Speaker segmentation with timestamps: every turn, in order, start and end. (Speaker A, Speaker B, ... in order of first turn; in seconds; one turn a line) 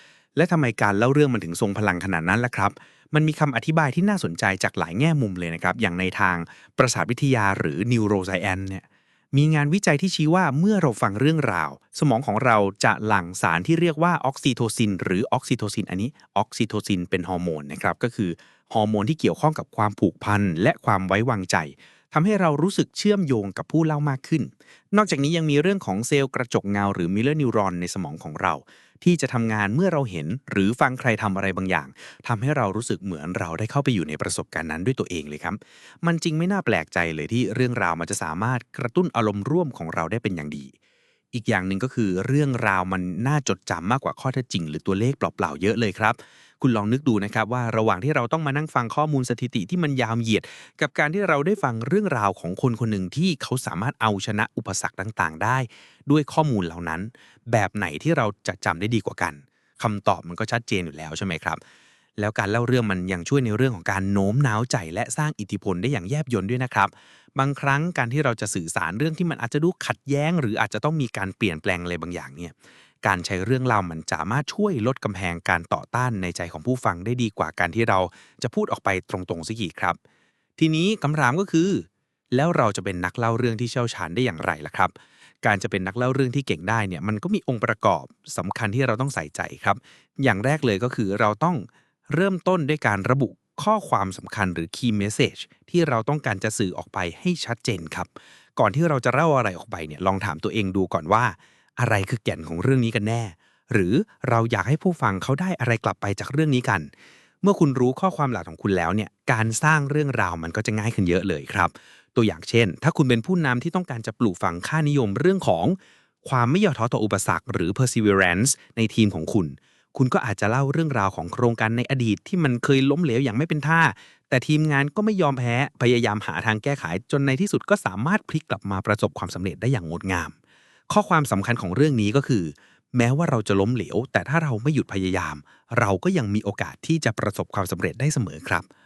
Speaker A: 0.4-40.7
Speaker A: 41.3-61.6
Speaker A: 62.2-80.0
Speaker A: 80.6-106.9
Speaker A: 107.4-130.3
Speaker A: 130.9-138.6